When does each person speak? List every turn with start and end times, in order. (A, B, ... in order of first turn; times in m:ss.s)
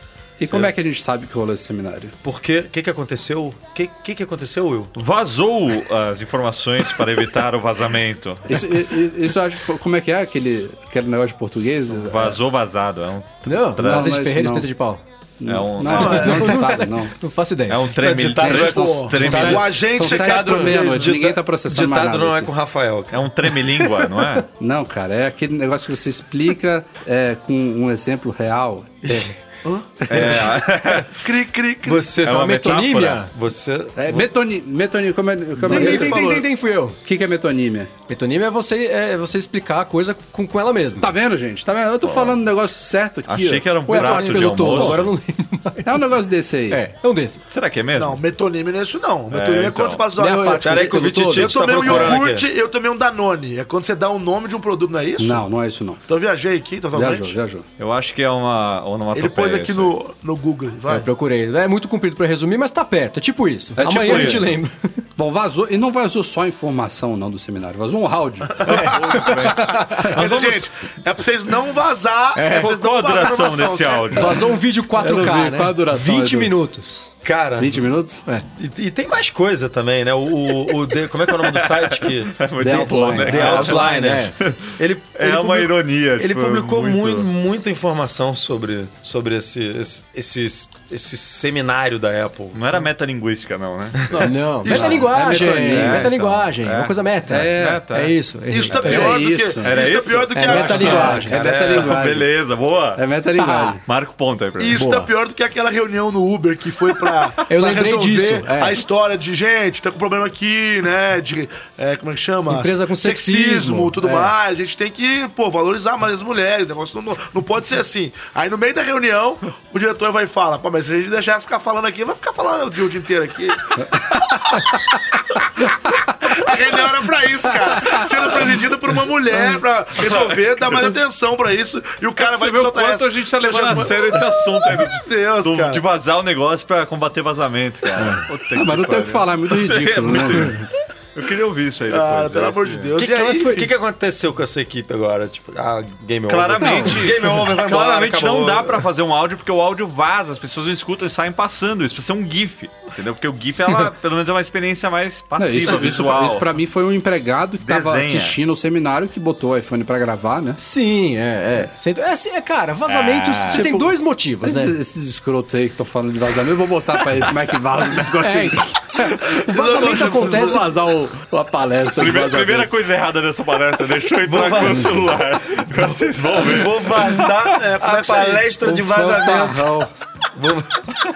0:00.4-0:02.1 A
0:02.2-0:04.9 B
0:05.0-0:08.6 C
0:08.5-0:12.4 A
0:12.0-0:14.2 C
0:13.4-0:15.0 D
0:13.8-0:14.7 A
0:15.4-0:17.1 A
0:15.4-0:16.5 C
0:15.8-0:16.6 E
0:15.9-0:17.8 D
0:17.7-0:19.8 C
0:18.0-0:23.3 B
0:18.3-0:22.5 A
0:18.8-0:21.2 E
0:23.1-0:24.4 C
0:24.6-0:29.2 A
0:29.6-0:29.9 E
0:30.1-0:31.2 C
0:31.1-0:32.1 E
0:31.8-0:32.5 B
0:32.2-0:33.2 C
0:32.2-0:33.3 D
0:33.3-0:34.2 B
0:34.0-0:36.4 A
0:35.6-0:36.4 E
0:35.6-0:37.0 D
0:37.0-0:37.9 A
0:38.1-0:41.1 D
0:41.0-0:45.0 A
0:42.0-0:42.4 C
0:43.3-0:45.1 C
0:43.9-0:46.0 D
0:45.8-0:46.8 A
0:46.7-0:47.4 D
0:47.5-0:48.2 C
0:48.0-0:55.4 E
0:49.3-0:50.0 C
0:50.2-0:52.2 D
0:50.6-0:52.5 B
0:55.2-0:56.0 A
0:56.1-0:57.4 E
0:56.9-0:57.6 A
0:57.8-0:59.9 C
0:59.1-1:01.1 E
1:00.9-1:05.0 D
1:03.8-1:04.5 A
1:03.8-1:04.5 C
1:05.2-1:08.9 A
1:08.6-1:10.6 C
1:08.6-1:14.4 E
1:09.2-1:10.4 D
1:12.3-1:12.7 D
1:12.4-1:14.5 C
1:14.1-1:17.1 D
1:15.0-1:16.5 A
1:17.2-1:17.8 B
1:17.6-1:18.2 A
1:18.6-1:32.8 B
1:21.4-1:27.3 C
1:22.6-1:23.7 A
1:23.3-1:24.3 D
1:32.5-1:34.1 C
1:34.1-1:35.0 E
1:34.2-1:39.2 D
1:34.6-1:36.1 A
1:35.5-1:38.1 C
1:37.3-1:37.9 A
1:38.5-1:41.4 E
1:38.7-1:39.8 A
1:38.7-1:43.0 C
1:40.3-1:41.4 D
1:40.5-1:42.3 A
1:41.3-1:42.0 B
1:43.0-1:43.8 A
1:43.4-1:43.8 D
1:43.8-1:44.8 C
1:44.6-2:15.8 E
1:44.7-1:45.1 D
1:47.5-1:48.8 D
1:52.5-1:54.3 D
2:10.0-2:10.9 C
2:12.2-2:22.9 C
2:18.5-2:20.7 A
2:21.9-2:23.7 E
2:23.0-2:23.6 D
2:23.4-2:28.8 B
2:26.3-2:36.5 C
2:26.6-2:27.1 A
2:35.4-2:40.6 A
2:37.6-2:38.4 C
2:40.6-2:44.7 D
2:42.9-2:43.7 C
2:43.5-2:52.7 A
2:48.2-2:50.6 D
2:49.4-2:50.6 E
2:52.0-2:57.3 C
2:54.2-2:55.1 B
2:56.4-2:59.8 B
2:57.5-2:58.7 E
2:58.6-2:59.9 A
3:00.3-3:00.8 B